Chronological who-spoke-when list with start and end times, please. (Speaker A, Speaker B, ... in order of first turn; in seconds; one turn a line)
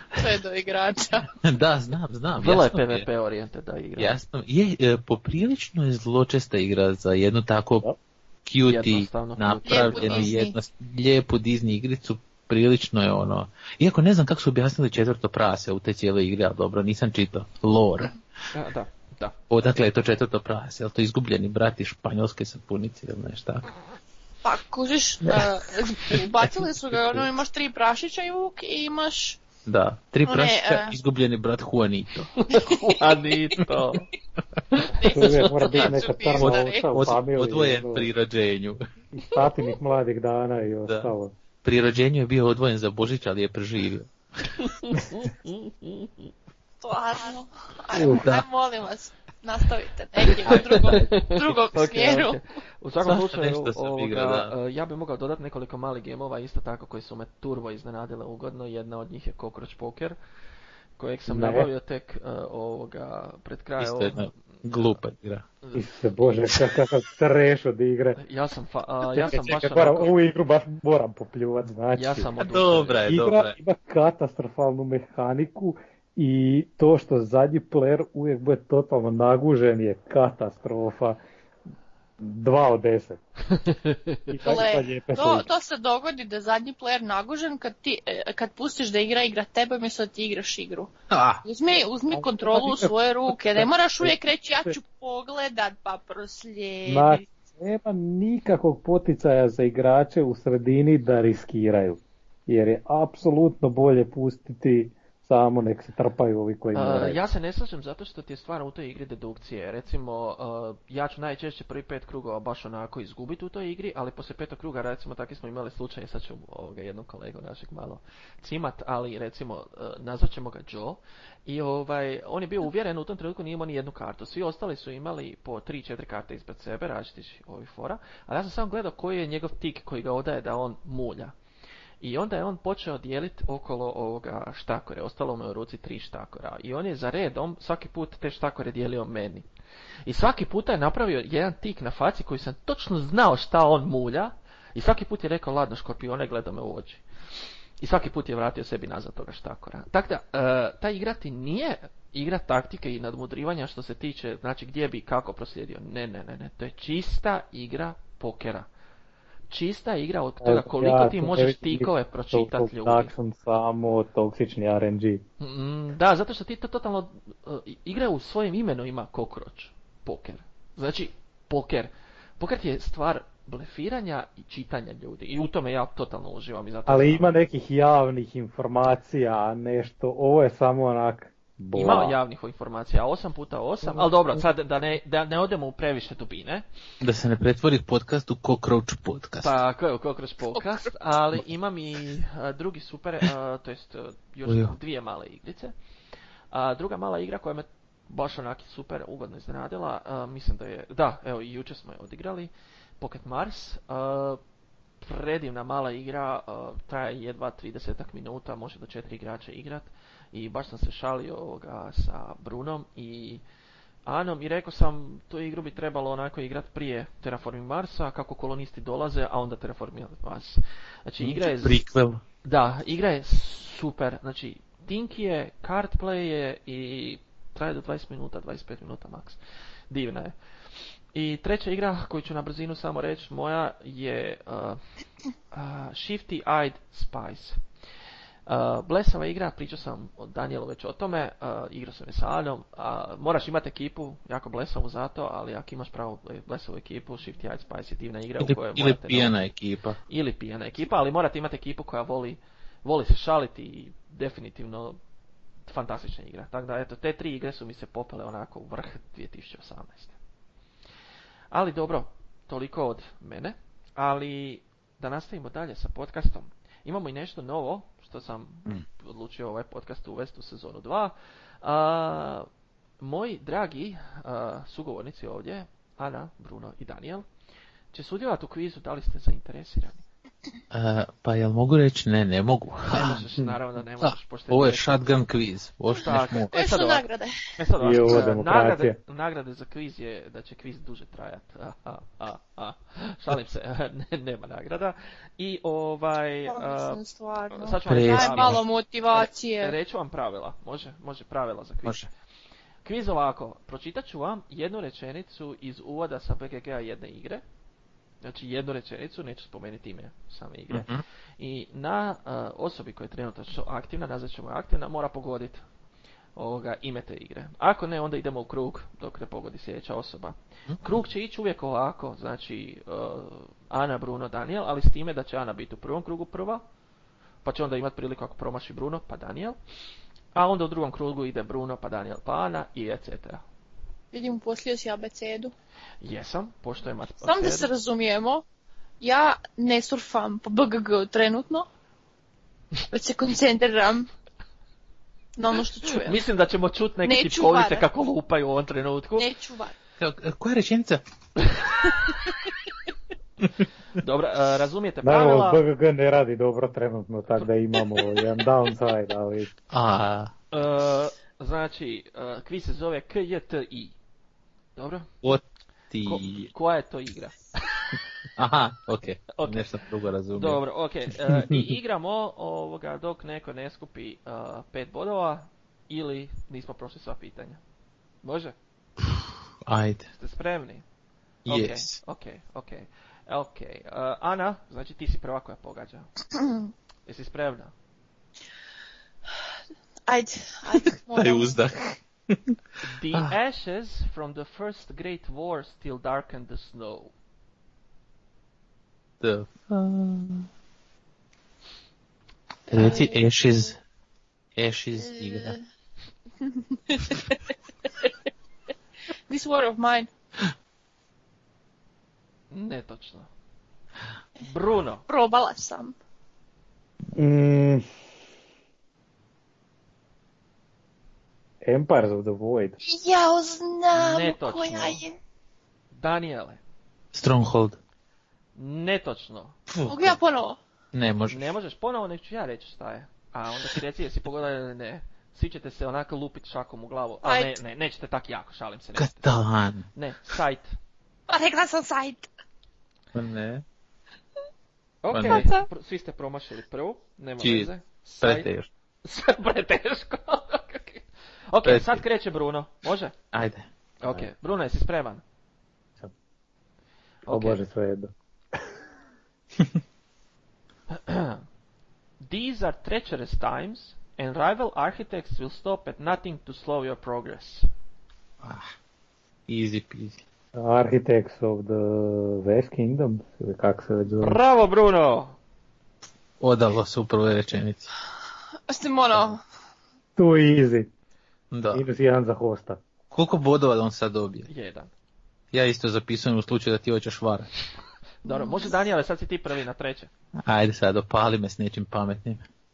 Speaker A: 0.2-1.3
Speaker B: 1.3-3.1
Speaker C: 2.4-4.2
Speaker B: 4.0-7.9
Speaker B: 8.4-18.2
Speaker C: 8.7-10.3
Speaker A: 9.6-10.5
Speaker C: 18.5-19.4
Speaker B: 19.5-23.7
Speaker A: 24.4-29.4
Speaker B: 26.1-27.3
Speaker B: 29.6-32.3
Speaker A: 30.2-30.9
Speaker C: 32.4-34.1
Speaker A: 32.5-33.0
Speaker A: 34.8-36.9
Speaker D: 35.1-38.1
Speaker B: 35.8-38.8
Speaker D: 39.1-41.3
Speaker B: 40.9-41.1
Speaker B: 41.6-44.8
Speaker C: 44.6-46.1
Speaker A: 46.8-52.4
Speaker B: 47.9-48.4
Speaker B: 50.5-51.0
Speaker C: 50.5-60.1
Speaker B: 53.0-54.5
Speaker C: 61.0-65.0
Speaker D: 61.3-61.7
Speaker B: 63.8-65.5
Speaker D: 65.7-68.2
Speaker C: 68.2-70.1
Speaker D: 69.2-72.3
Speaker C: 71.9-73.1
Speaker B: 72.4-73.5
Speaker D: 73.1-81.2
Speaker D: 82.2-83.2
Speaker C: 83.5-84.2
Speaker D: 84.3-85.5
Speaker A: 84.4-90.9
Speaker B: 91.1-91.4
Speaker A: 91.4-97.2
Speaker D: 92.1-94.8
Speaker D: 96.8-107.2
Speaker C: 106.7-131.3
Speaker C: 132.0-139.4
Speaker C: 140.1-147.0
Speaker C: 147.8-158.7
Speaker C: 159.5-163.1
Speaker D: 160.4-165.2
Speaker C: 165.4-177.3
Speaker D: 176.9-182.2
Speaker C: 181.7-186.6
Speaker B: 187.0-189.6
Speaker C: 189.4-195.7
Speaker B: 194.4-194.7
Speaker C: 196.5-204.4
Speaker C: 205.0-213.4
Speaker C: 214.1-221.8
Speaker B: 221.2-222.2
Speaker C: 222.4-229.4
Speaker C: 229.9-234.8
Speaker C: 235.5-237.6
Speaker C: 238.5-249.3
Speaker B: 248.4-250.0
Speaker C: 250.1-255.0
Speaker C: 255.7-260.1
Speaker C: 261.5-272.5
Speaker C: 273.0-277.2
Speaker C: 277.9-280.0
Speaker B: 280.7-286.5
Speaker C: 282.9-285.0
Speaker C: 286.0-287.0
Speaker A: 286.5-287.4
Speaker C: 287.6-297.0
Speaker D: 287.8-288.9
Speaker A: 296.5-299.8
Speaker C: 297.5-298.6
Speaker B: 297.9-298.6
Speaker C: 299.1-302.1
Speaker C: 302.8-307.4
Speaker C: 308.2-315.6
Speaker B: 310.7-311.0
Speaker C: 316.4-326.6
Speaker C: 327.4-329.6
Speaker C: 330.3-333.4
Speaker A: 334.1-335.5
Speaker C: 336.0-337.7
Speaker A: 337.2-338.4
Speaker A: 339.0-341.7
Speaker A: 342.9-344.1
Speaker A: 345.4-346.2
Speaker C: 345.8-349.3
Speaker A: 347.0-347.8
Speaker A: 349.2-349.7
Speaker B: 350.0-351.0
Speaker C: 351.4-351.7
Speaker C: 353.9-355.6
Speaker D: 355.0-359.5
Speaker B: 359.7-360.3
Speaker C: 360.5-363.9
Speaker C: 364.8-365.1
Speaker B: 365.2-366.5
Speaker C: 366.0-368.0
Speaker B: 368.4-370.6
Speaker C: 369.3-369.8
Speaker C: 370.3-377.6
Speaker B: 371.3-371.7
Speaker C: 378.2-378.6
Speaker B: 379.6-380.1
Speaker C: 380.1-380.8
Speaker B: 381.4-382.0
Speaker C: 381.5-386.1
Speaker A: 386.4-386.7
Speaker C: 387.1-387.7
Speaker A: 390.1-391.6
Speaker B: 390.7-392.5
Speaker C: 392.8-397.1
Speaker B: 399.2-400.5
Speaker A: 402.7-403.3
Speaker B: 402.7-403.8
Speaker B: 404.6-405.6
Speaker A: 404.9-405.6
Speaker A: 406.4-407.4
Speaker A: 409.3-410.1
Speaker C: 412.5-413.3
Speaker C: 414.4-415.0
Speaker A: 415.1-415.9
Speaker D: 417.1-417.8
Speaker D: 421.6-422.8
Speaker A: 422.8-425.1
Speaker C: 423.9-425.0
Speaker C: 425.9-426.6
Speaker B: 427.1-427.8
Speaker C: 428.6-429.6
Speaker B: 429.7-430.2
Speaker A: 429.9-430.6
Speaker B: 430.9-431.5
Speaker C: 431.3-439.3
Speaker A: 437.2-437.5
Speaker B: 438.9-439.9
Speaker C: 439.9-440.8
Speaker A: 441.3-442.3
Speaker B: 443.1-443.6
Speaker C: 445.0-448.5
Speaker B: 445.1-445.5
Speaker A: 445.2-445.7
Speaker B: 447.4-447.7
Speaker B: 448.2-448.7
Speaker C: 449.0-453.1
Speaker B: 451.6-452.0
Speaker B: 453.3-454.2
Speaker C: 454.0-455.2
Speaker C: 457.2-457.6
Speaker D: 457.3-458.1
Speaker C: 460.9-461.4
Speaker C: 462.2-467.7
Speaker B: 468.4-468.7
Speaker B: 469.5-470.2
Speaker D: 470.5-474.4
Speaker C: 474.2-475.4
Speaker B: 476.4-477.9
Speaker A: 478.7-479.4
Speaker D: 480.1-480.9
Speaker B: 481.5-481.8
Speaker D: 481.7-482.8
Speaker B: 483.1-484.5
Speaker C: 484.5-484.9
Speaker B: 485.5-487.5
Speaker C: 488.2-490.1
Speaker A: 488.2-488.8
Speaker B: 490.4-492.4